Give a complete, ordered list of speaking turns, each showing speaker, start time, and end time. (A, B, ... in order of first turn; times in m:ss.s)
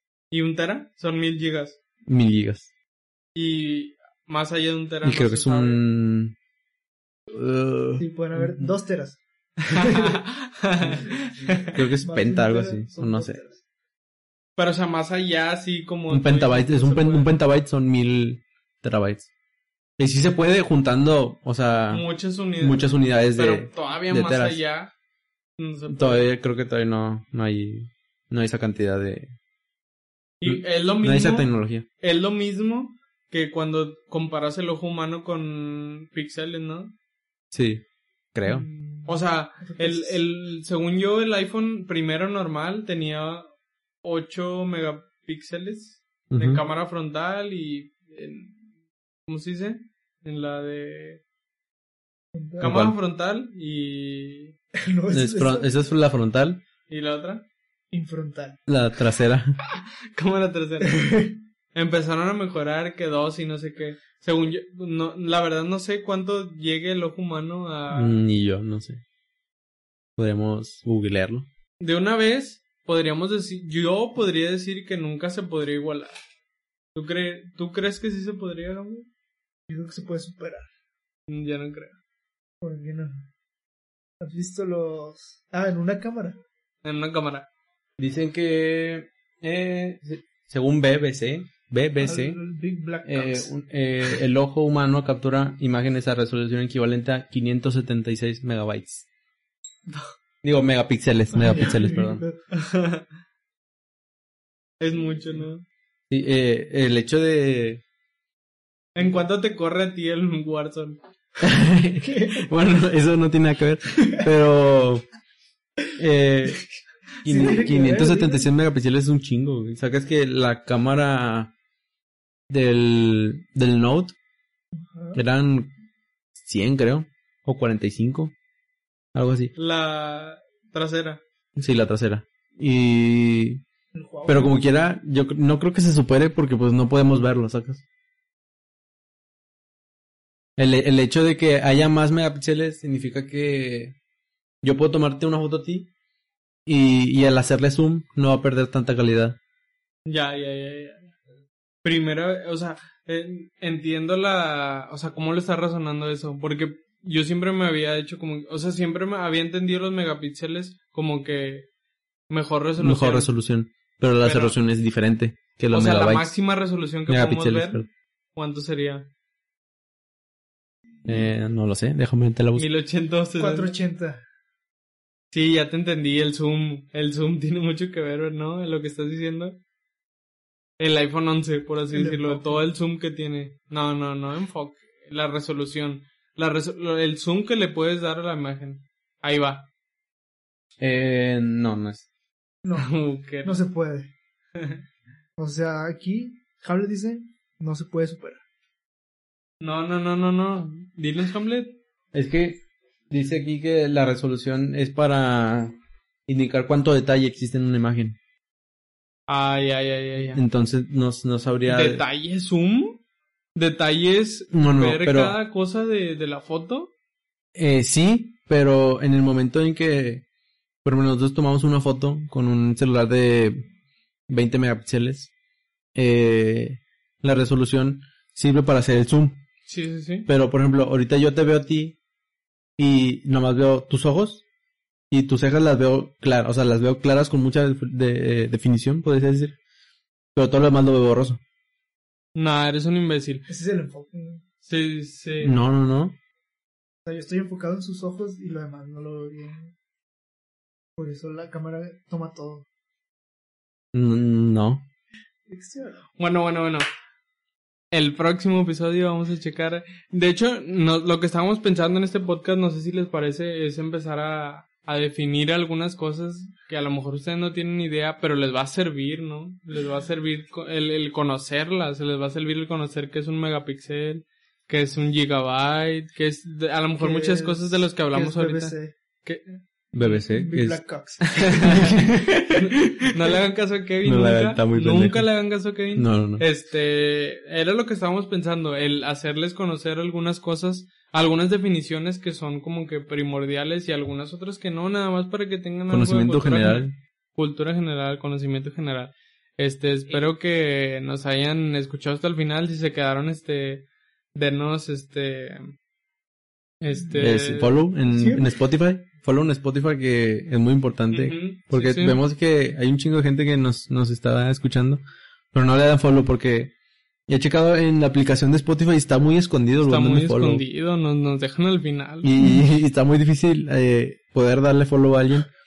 0:00.3-0:01.8 A
0:02.1-0:02.7 B
0:03.4-0:05.8 A
0:05.0-0:06.4 B
0:07.3-0:08.7 B
0:08.0-0:10.2 C
0:09.7-0:11.8 A
0:11.7-0:13.4 B
0:11.8-0:13.6 C
0:14.6-0:17.3 A
0:16.1-0:19.3 B
0:20.0-0:22.1 B
0:21.9-0:24.9 A
0:22.6-0:24.6 B
0:25.6-0:26.3 A
0:25.9-0:29.3 B
0:30.4-0:36.9 A
0:30.4-0:31.9 B
0:37.5-0:38.6 B
0:38.5-0:39.1 C
0:39.0-0:43.5 A
0:39.6-0:40.2 C
0:44.0-0:48.6 A
0:46.3-0:46.6 B
0:49.3-0:51.2 A
0:52.4-0:52.7 C
0:52.6-0:53.0 B
0:52.6-0:54.6 A
0:54.9-0:55.7 C
0:55.1-0:56.6 B
0:56.9-0:57.4 A
0:57.9-0:58.6 C
0:58.7-0:59.6 B
0:59.7-1:08.2 A
1:00.8-1:01.4 C
1:07.9-1:09.0 B
1:10.2-1:11.5 B
1:11.8-1:16.2 A
1:17.0-1:19.1 A
1:19.7-1:20.7 C
1:21.3-1:22.0 A
1:22.6-1:23.2 C
1:24.2-1:26.4 C
1:26.8-1:27.5 A
1:28.0-1:32.4 B
1:32.0-1:33.5 C
1:33.0-1:39.1 B
1:40.4-1:42.2 B
1:41.3-1:42.4 C
1:42.5-1:43.0 A
1:44.8-1:45.6 A
1:46.1-1:47.8 B
1:49.0-1:51.0 A
1:51.4-1:55.0 B
1:52.0-1:52.4 C
1:56.0-1:56.6 B
1:57.2-1:58.5 C
1:57.2-2:01.5 B
2:02.5-2:04.1 B
2:04.8-2:05.2 C
2:05.1-2:05.7 B
2:06.4-2:08.3 B
2:09.1-2:09.5 B
2:09.6-2:11.2 A
2:11.6-2:13.6 B
2:13.9-2:14.6 C
2:14.3-2:17.8 B
2:20.6-2:24.0 B
2:24.6-2:25.9 B
2:26.6-2:29.4 B
2:30.1-2:31.1 A
2:31.8-2:41.7 A
2:42.3-2:43.3 A
2:42.8-2:46.4 B
2:44.2-2:44.6 A
2:45.7-2:49.1 A
2:47.1-2:47.9 B
2:51.0-2:52.7 B
2:52.6-2:53.8 A
2:53.4-2:54.2 C
2:55.3-2:59.6 A
3:00.8-3:09.7 A
3:01.9-3:02.6 C
3:10.8-3:12.1 B
3:12.6-3:12.9 C
3:12.8-3:13.5 A
3:13.4-3:14.1 C
3:15.4-3:18.4 C
3:19.6-3:21.8 A
3:22.1-3:25.7 B
3:26.3-3:28.2 B
3:29.3-3:30.4 A
3:30.3-3:32.0 B
3:31.7-3:33.0 A
3:33.6-3:36.9 A
3:34.5-3:35.4 B
3:37.6-3:40.2 B
3:40.8-3:43.7 B
3:44.3-3:45.3 B
3:46.0-3:49.4 B
3:49.7-3:50.3 A
3:50.3-3:52.0 B
3:52.8-3:54.4 B
3:55.1-3:59.6 B
4:00.4-4:01.4 B
4:02.4-4:03.5 A
4:03.5-4:04.4 C
4:04.6-4:05.6 A
4:05.4-4:06.2 B
4:07.1-4:09.7 C
4:11.0-4:12.6 C
4:13.9-4:14.8 B
4:15.5-4:16.1 C
4:16.2-4:16.9 A
4:17.9-4:40.2 A
4:37.0-4:38.9 C
4:39.9-4:40.8 B
4:40.3-4:42.1 C
4:41.3-5:05.8 A
4:41.6-4:42.2 B
4:44.0-4:45.3 B
4:45.9-4:46.5 B
4:55.9-4:56.9 B
5:06.8-5:07.8 A
5:07.1-5:15.0 B
5:08.1-5:08.5 C
5:11.1-5:12.2 A
5:15.5-5:16.7 B
5:17.3-5:20.6 B
5:19.8-5:22.3 A
5:22.2-5:25.5 B